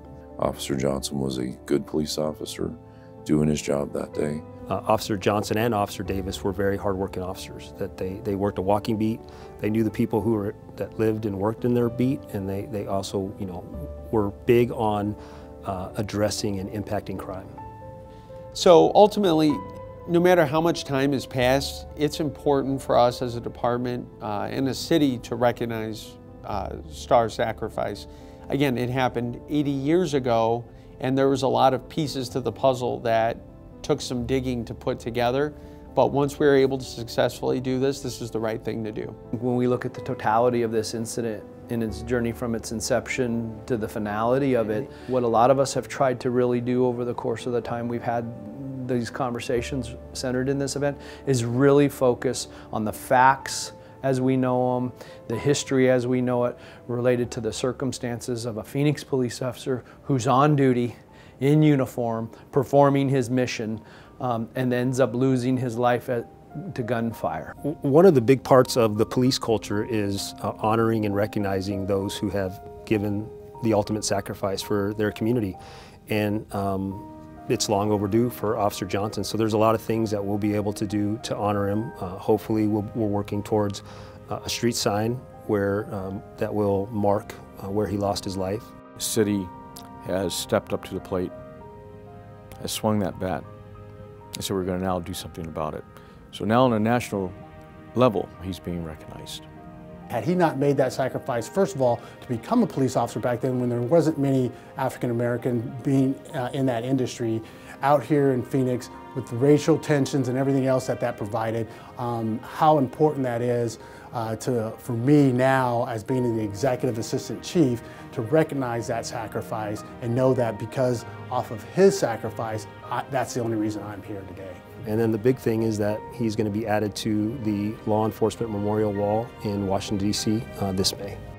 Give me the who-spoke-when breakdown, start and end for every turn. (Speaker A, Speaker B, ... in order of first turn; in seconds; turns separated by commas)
Speaker A: 0.4-4.5, Speaker B: 4.7-17.5, Speaker C: 18.5-39.2, Speaker D: 39.3-67.5, Speaker B: 67.6-88.7, Speaker E: 89.0-89.5, Speaker E: 90.0-91.3, Speaker E: 92.6-93.5, Speaker E: 94.4-97.4, Speaker E: 98.0-99.4, Speaker F: 100.1-124.6, Speaker B: 124.8-131.2